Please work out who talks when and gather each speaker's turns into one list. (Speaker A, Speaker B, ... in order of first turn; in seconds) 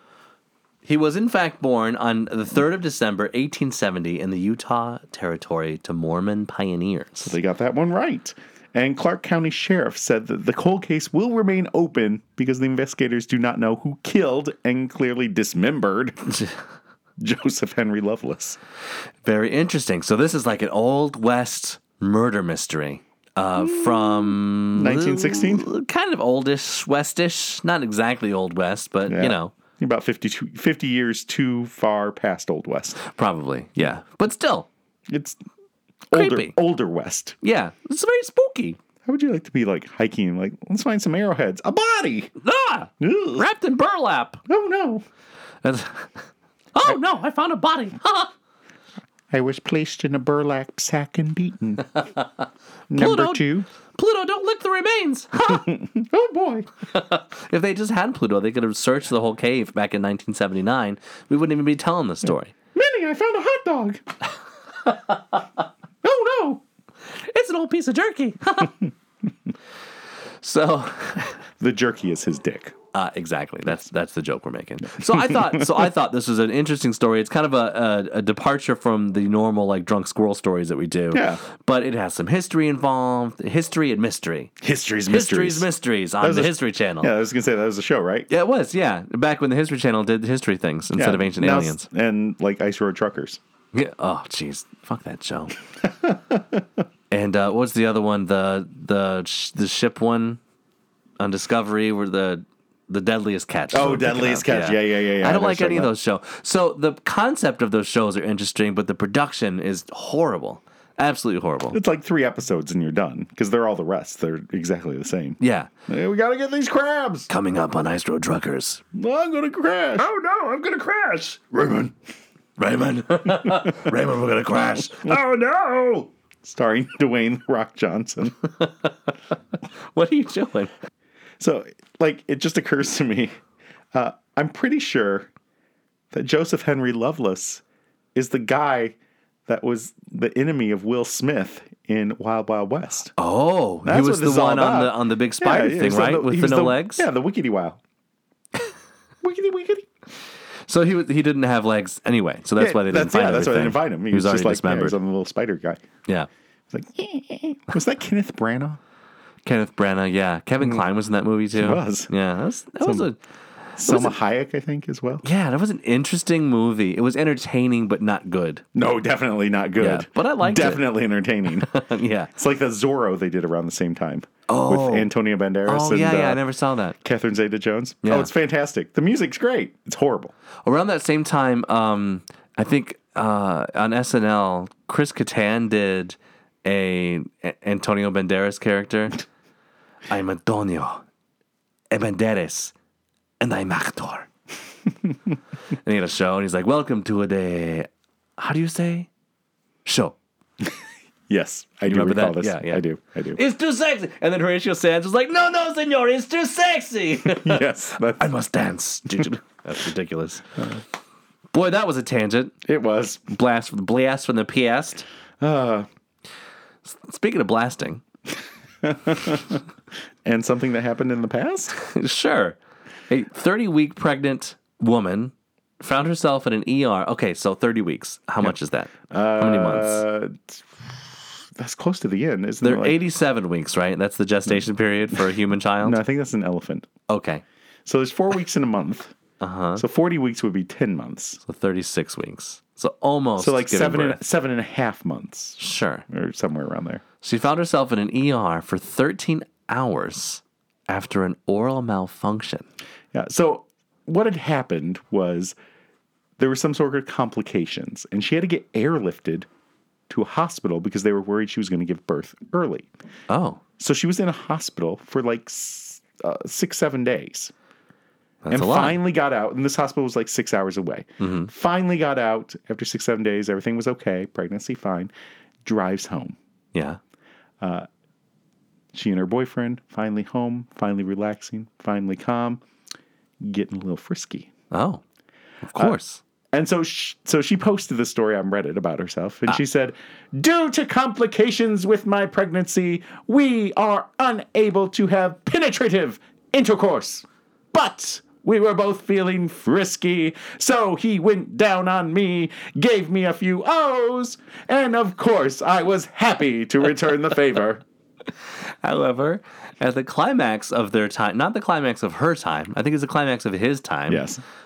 Speaker A: 0.8-7.4, 16.3-16.6, 19.2-29.5, 33.0-34.7, 36.1-36.6, 37.4-38.8, 42.4-44.4, 45.6-46.1, 46.8-48.3, 52.9-55.7, 56.9-62.5, 64.9-65.4, 67.1-68.8, 70.4-71.4, 72.9-84.5, 85.1-87.1, 88.3-91.9, 93.7-95.6, 97.1-100.4, 101.2-111.8, 115.4-115.7, 117.3-118.8, 120.0-121.9, 122.6-126.1, 128.6-128.9, 129.9-130.7, 143.2-147.1, 150.7-154.9, 159.4-163.2, 163.9-164.2, 165.2-168.6, 169.8-170.9, 171.6-172.3, 174.5-175.1, 175.7-176.9, 178.0-178.3, 180.6-189.2, 190.1-191.0, 191.9-192.7, 193.4-194.3, 195.7-199.1, 199.8-200.2, 201.9-202.8, 203.3-207.6, 208.2-210.8, 211.5-212.6, 213.3-215.1, 216.8-218.0, 221.8-222.6, 223.1-230.0, 232.6-236.0, 237.1-237.4, 239.4-239.8, 241.4-244.2, 245.6-246.1, 247.2-252.7, 263.3-263.6, 268.4-269.0, 271.2-271.5, 276.7-277.0, 284.7-285.0, 285.6-286.2, 308.8-314.2
Speaker B: 7.2-16.3, 17.2-18.6, 23.6-25.7, 29.1-33.0, 35.1-35.4, 36.1-37.4, 39.0-42.3, 43.0-43.5, 44.5-45.0, 49.3-51.9, 52.9-53.7, 55.4-56.7, 62.7-64.0, 66.0-66.6, 71.6-72.8, 75.1-75.8, 81.1-81.4, 84.6-85.7, 86.2-88.3, 91.0-93.4, 95.8-96.6, 103.7-105.9, 111.7-117.3, 118.9-120.1, 123.4-123.9, 126.4-128.4, 131.4-133.3, 133.9-135.3, 136.1-137.6, 138.1-138.9, 139.5-143.1, 143.8-147.8, 149.2-149.9, 152.6-155.8, 156.7-158.8, 161.5-162.1, 162.8-163.1, 163.8-165.2, 168.8-171.8, 172.3-176.4, 177.0-180.3, 201.3-203.4, 207.2-208.3, 212.6-213.3, 215.4-215.9, 218.8-219.6, 220.2-221.8, 229.1-230.9, 231.5-233.0, 235.8-236.9, 237.9-239.1, 239.8-241.4, 243.4-247.0, 253.1-255.5, 256.4-259.5, 260.1-262.9, 263.8-267.5, 268.5-275.1, 275.6-276.4, 277.6-277.9, 278.9-282.6, 283.4-284.5, 286.5-307.8, 314.1-314.4